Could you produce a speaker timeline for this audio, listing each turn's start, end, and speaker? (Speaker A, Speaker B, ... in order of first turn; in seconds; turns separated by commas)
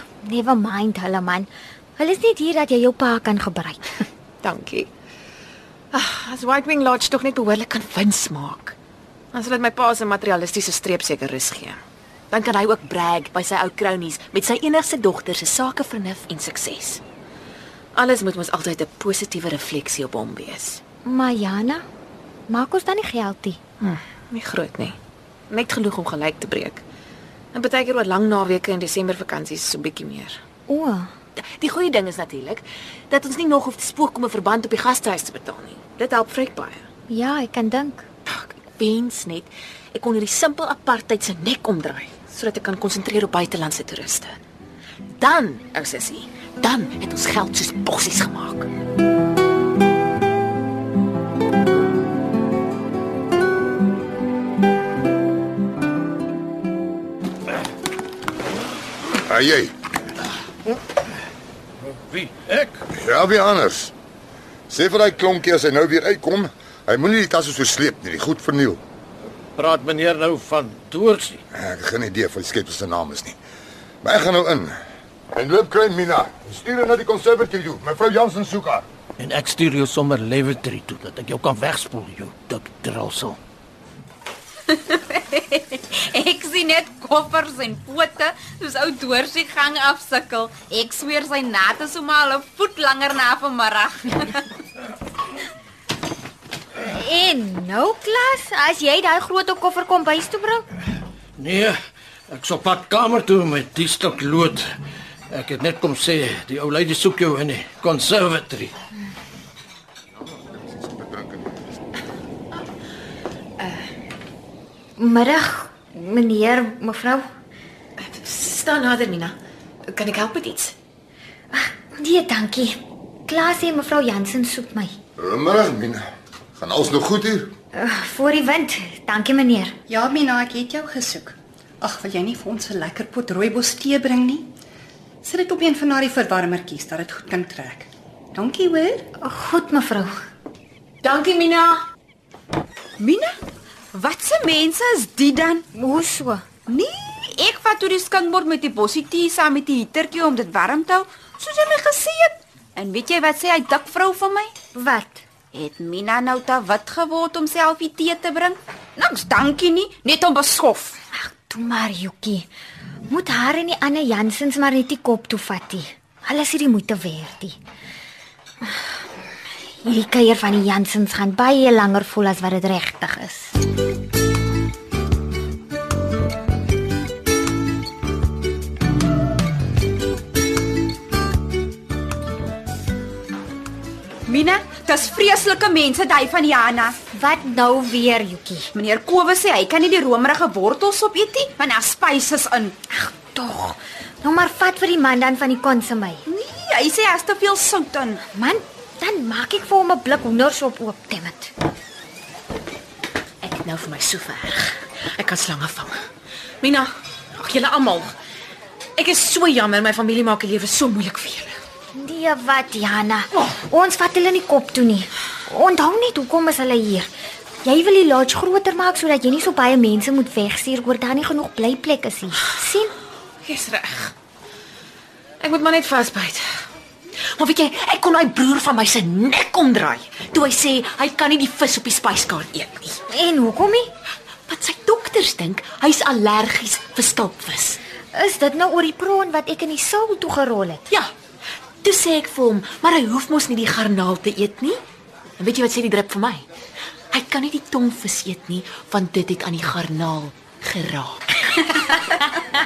Speaker A: 0.2-4.0, Speaker B: 4.4-4.9, Speaker B: 5.9-8.8, Speaker B: 9.3-11.8, Speaker B: 12.3-17.0, Speaker B: 18.0-20.8, Speaker A: 21.1-21.8, Speaker A: 22.5-23.6, Speaker B: 23.8-24.9, Speaker B: 25.5-26.8, Speaker B: 27.5-30.4, Speaker A: 30.7-31.1, Speaker B: 31.4-36.8, Speaker A: 37.1-38.0, Speaker B: 38.3-44.4, Speaker B: 45.2-48.7, Speaker C: 59.3-59.7, Speaker D: 62.0-62.8, Speaker C: 62.9-63.9, Speaker C: 64.7-68.8, Speaker D: 69.6-71.4, Speaker C: 71.5-73.4, Speaker C: 74.0-74.8, Speaker C: 75.3-78.8, Speaker D: 79.2-83.4, Speaker E: 84.7-94.5, Speaker A: 96.8-100.7, Speaker D: 101.4-101.7, Speaker D: 102.3-104.6, Speaker D: 105.3-108.7, Speaker C: 110.3-111.6, Speaker B: 113.6-113.9, Speaker A: 115.0-117.2, Speaker B: 118.0-120.8, Speaker A: 121.5-125.0, Speaker C: 125.2-127.5, Speaker A: 127.7-129.8, Speaker F: 129.9-134.5, Speaker F: 135.2-139.1, Speaker A: 139.2-140.2, Speaker E: 141.0-141.8, Speaker E: 143.0-143.3, Speaker E: 143.9-145.6, Speaker A: 145.7-146.4, Speaker E: 146.7-154.5, Speaker A: 154.8-155.2, Speaker E: 155.5-161.0, Speaker A: 161.2-162.5, Speaker A: 163.1-167.6, Speaker A: 169.8-173.6, Speaker E: 184.3-187.0, Speaker A: 187.1-188.7, Speaker E: 188.7-192.7, Speaker A: 192.9-196.2, Speaker E: 196.3-198.2, Speaker A: 198.3-201.5, Speaker B: 203.4-206.0, Speaker B: 206.6-208.1, Speaker B: 209.0-211.6, Speaker A: 212.0-217.1, Speaker A: 217.6-222.9, Speaker B: 223.4-224.1, Speaker B: 225.4-226.4, Speaker B: 227.4-233.0, Speaker A: 233.1-233.9, Speaker B: 234.5-237.8, Speaker A: 238.1-240.8, Speaker B: 241.8-244.8, Speaker B: 245.4-246.4, Speaker B: 247.1-252.3